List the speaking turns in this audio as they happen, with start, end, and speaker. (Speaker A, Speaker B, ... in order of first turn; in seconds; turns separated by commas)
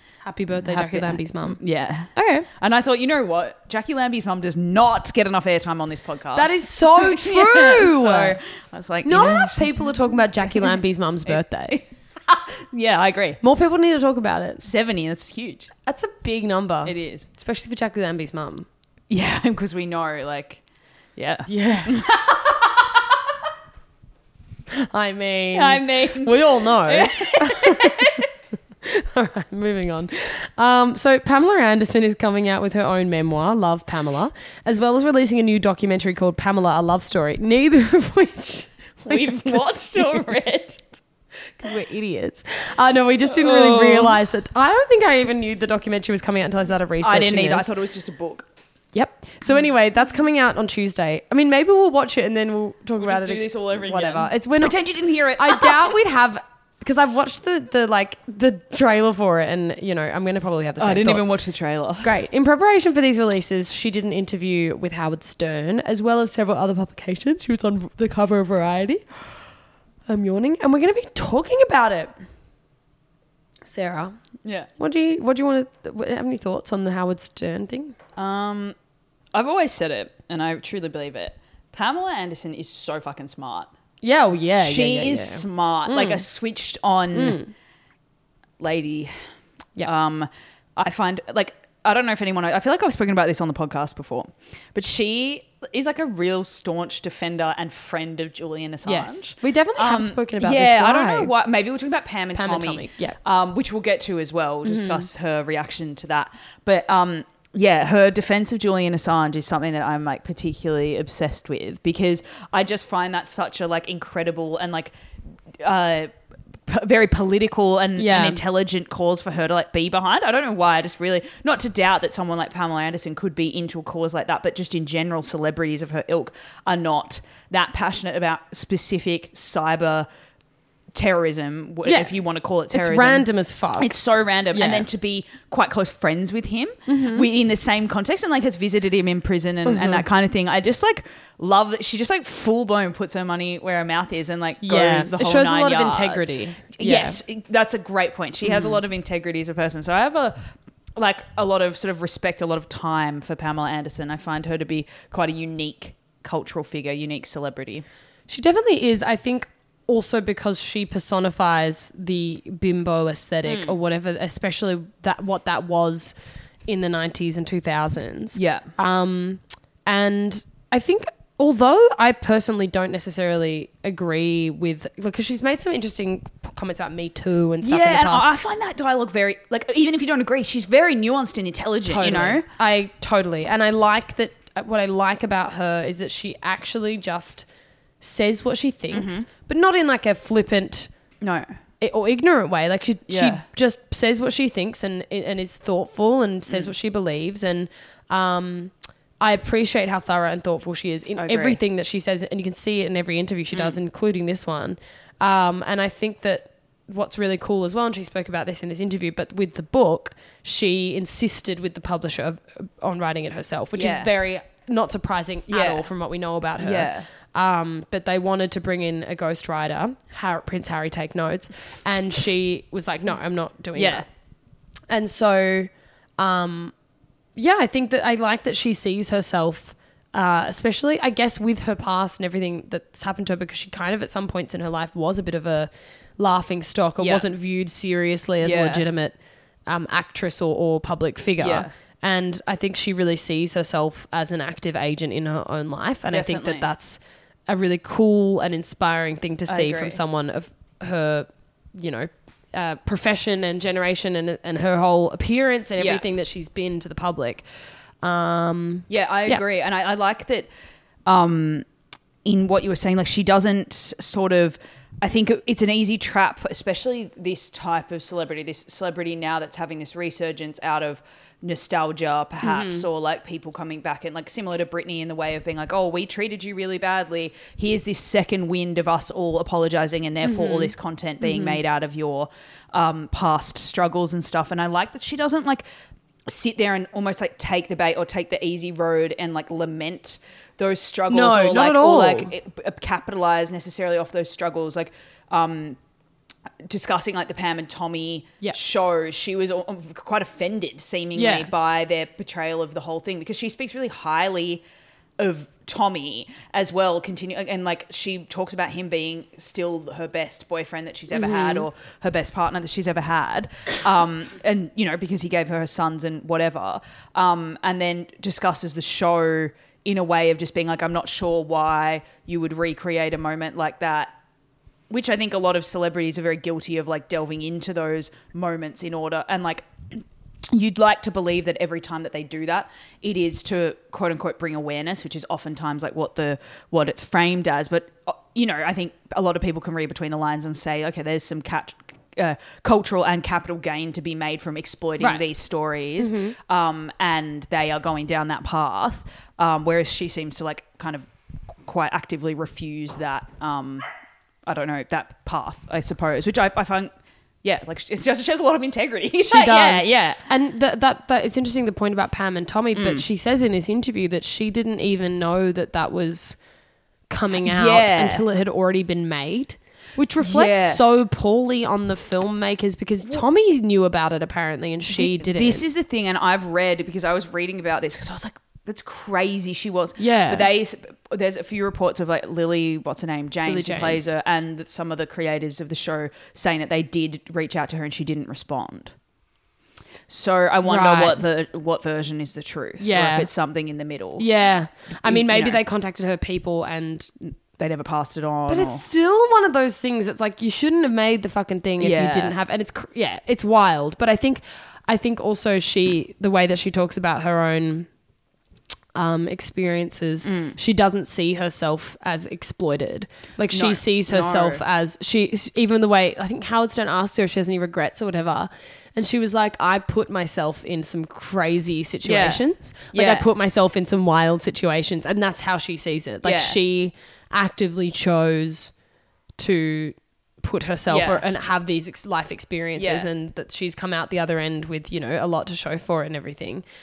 Speaker A: 0.2-1.6, Speaker B: 0.6-9.9, Speaker A: 2.1-2.5, Speaker A: 6.3-8.4, Speaker A: 9.0-11.8, Speaker B: 10.5-10.7, Speaker B: 11.3-13.4, Speaker A: 13.4-14.6, Speaker B: 14.6-15.7, Speaker A: 15.8-18.7, Speaker B: 16.8-17.3, Speaker B: 19.1-20.6, Speaker B: 21.1-23.4, Speaker A: 21.5-22.1, Speaker A: 24.7-28.2, Speaker B: 25.5-28.3, Speaker A: 28.8-40.3, Speaker B: 39.0-41.0, Speaker A: 41.6-47.7, Speaker B: 43.3-44.2, Speaker B: 47.0-48.5, Speaker A: 48.9-54.8, Speaker B: 53.0-55.9, Speaker A: 55.4-61.3, Speaker B: 60.8-62.1, Speaker A: 62.0-69.2, Speaker A: 70.1-72.1, Speaker A: 73.6-74.2, Speaker B: 74.4-74.7, Speaker A: 74.8-77.9, Speaker B: 78.2-78.8, Speaker B: 79.3-83.7, Speaker A: 84.0-86.2, Speaker B: 84.6-87.4, Speaker A: 87.1-87.5, Speaker B: 88.6-89.1, Speaker B: 89.8-114.9, Speaker A: 98.8-101.3, Speaker A: 102.3-103.2, Speaker A: 104.6-105.1, Speaker B: 115.6-116.1, Speaker B: 116.7-130.1, Speaker A: 118.0-118.4, Speaker B: 130.9-157.8, Speaker A: 131.8-132.1, Speaker A: 132.7-133.9, Speaker A: 134.5-134.8, Speaker A: 136.9-137.3, Speaker A: 139.7-140.0, Speaker A: 144.6-147.2, Speaker A: 148.4-148.8, Speaker A: 158.3-166.1, Speaker B: 163.4-163.7, Speaker A: 166.7-178.3, Speaker B: 168.3-168.7, Speaker B: 177.6-182.4, Speaker A: 181.9-187.4, Speaker A: 188.0-190.9, Speaker B: 188.9-189.3, Speaker B: 191.2-191.5, Speaker A: 191.8-224.1, Speaker B: 193.1-193.4, Speaker B: 201.2-201.6, Speaker B: 213.7-214.1, Speaker B: 215.5-215.9, Speaker B: 216.6-217.1, Speaker B: 223.7-224.1, Speaker A: 224.9-226.7, Speaker A: 227.4-239.2, Speaker B: 237.0-237.2, Speaker B: 238.4-238.8, Speaker A: 239.7-257.4, Speaker B: 241.4-241.7, Speaker B: 246.1-246.7, Speaker B: 249.5-250.0, Speaker B: 255.8-256.0, Speaker A: 258.0-259.4, Speaker B: 258.9-260.5, Speaker B: 261.1-261.7, Speaker B: 262.2-285.6, Speaker A: 272.4-272.9, Speaker A: 280.2-281.6, Speaker B: 286.3-295.8, Speaker A: 291.1-292.3, Speaker B: 296.6-304.6, Speaker A: 301.1-301.5, Speaker B: 305.2-324.1, Speaker A: 311.1-311.7, Speaker B: 324.9-351.1, Speaker A: 346.0-346.4, Speaker B: 351.6-353.9, Speaker B: 354.4-356.9, Speaker B: 357.4-360.2, Speaker A: 359.2-366.4, Speaker B: 362.7-363.0, Speaker A: 367.1-375.6, Speaker B: 367.4-368.2, Speaker B: 370.2-370.8, Speaker B: 374.9-388.9, Speaker A: 380.0-380.5, Speaker A: 383.5-384.1, Speaker B: 390.1-394.2, Speaker A: 390.6-391.2, Speaker A: 392.8-393.3, Speaker A: 394.2-397.1, Speaker B: 395.0-395.6, Speaker B: 397.2-398.8, Speaker A: 398.5-407.9, Speaker B: 401.8-402.3, Speaker A: 408.9-428.7, Speaker B: 410.2-410.6, Speaker B: 413.5-414.6, Speaker B: 422.0-423.3, Speaker B: 426.2-426.6, Speaker A: 429.4-436.6, Speaker B: 430.9-431.2, Speaker B: 432.8-433.1